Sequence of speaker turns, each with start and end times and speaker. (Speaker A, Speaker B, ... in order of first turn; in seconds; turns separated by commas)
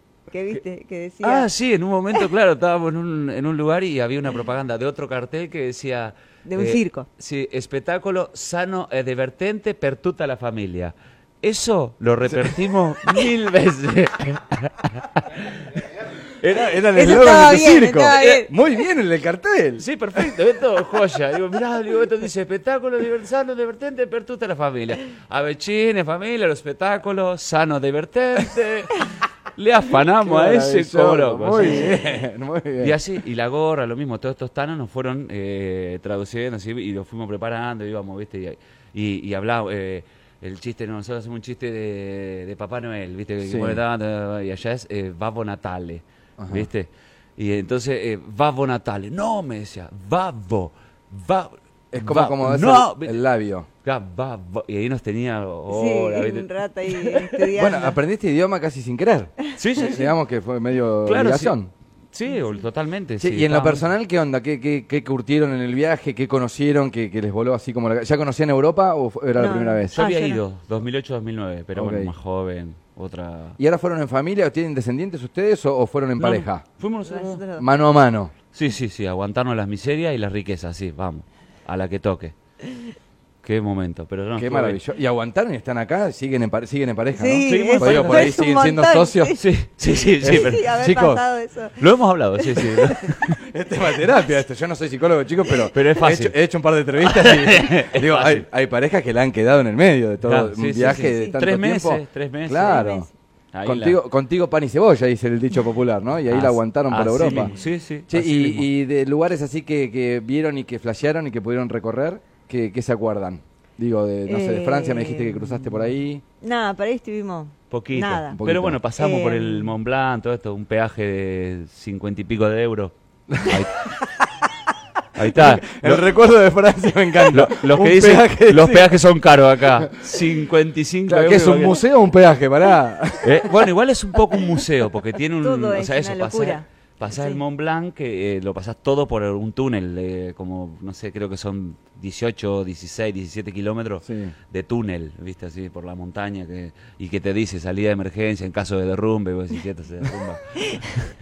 Speaker A: 0.3-1.4, Speaker B: 1.2-17.2, Speaker A: 6.4-7.1, Speaker C: 16.5-19.8, Speaker A: 16.9-18.5, Speaker B: 19.8-32.0, Speaker C: 30.2-33.0, Speaker B: 32.8-53.2, Speaker C: 43.4-43.8, Speaker C: 46.4-46.7, Speaker C: 51.9-53.7, Speaker B: 53.8-57.7, Speaker A: 55.7-57.9, Speaker C: 57.5-61.7, Speaker B: 59.5-60.1, Speaker B: 61.0-61.5, Speaker B: 62.1-63.9, Speaker A: 62.3-62.6, Speaker C: 63.2-70.0, Speaker A: 69.3-70.4, Speaker B: 69.9-73.6, Speaker C: 71.7-72.1, Speaker C: 73.6-76.7, Speaker B: 76.2-77.4, Speaker A: 77.0-77.7, Speaker C: 77.6-78.3, Speaker B: 78.5-82.3, Speaker B: 83.4-84.8, Speaker C: 84.4-89.3, Speaker A: 87.1-89.5, Speaker B: 87.4-88.4, Speaker B: 89.4-90.8, Speaker C: 90.2-91.2, Speaker A: 90.2-92.9, Speaker B: 91.8-93.4, Speaker C: 93.4-103.1, Speaker B: 95.6-96.3, Speaker B: 97.0-98.5, Speaker B: 100.2-102.8, Speaker A: 100.9-101.4, Speaker A: 102.6-103.1, Speaker B: 103.5-104.0, Speaker C: 103.6-107.5, Speaker B: 106.3-108.7, Speaker C: 108.1-116.2, Speaker A: 114.2-115.8, Speaker A: 116.4-118.3, Speaker B: 117.7-123.9, Speaker C: 118.3-118.8, Speaker A: 119.0-119.7, Speaker C: 123.3-124.3, Speaker B: 125.1-126.1, Speaker C: 125.3-128.9, Speaker B: 127.3-131.9, Speaker C: 131.1-133.6, Speaker B: 133.2-151.1, Speaker A: 135.4-137.4, Speaker C: 144.0-144.3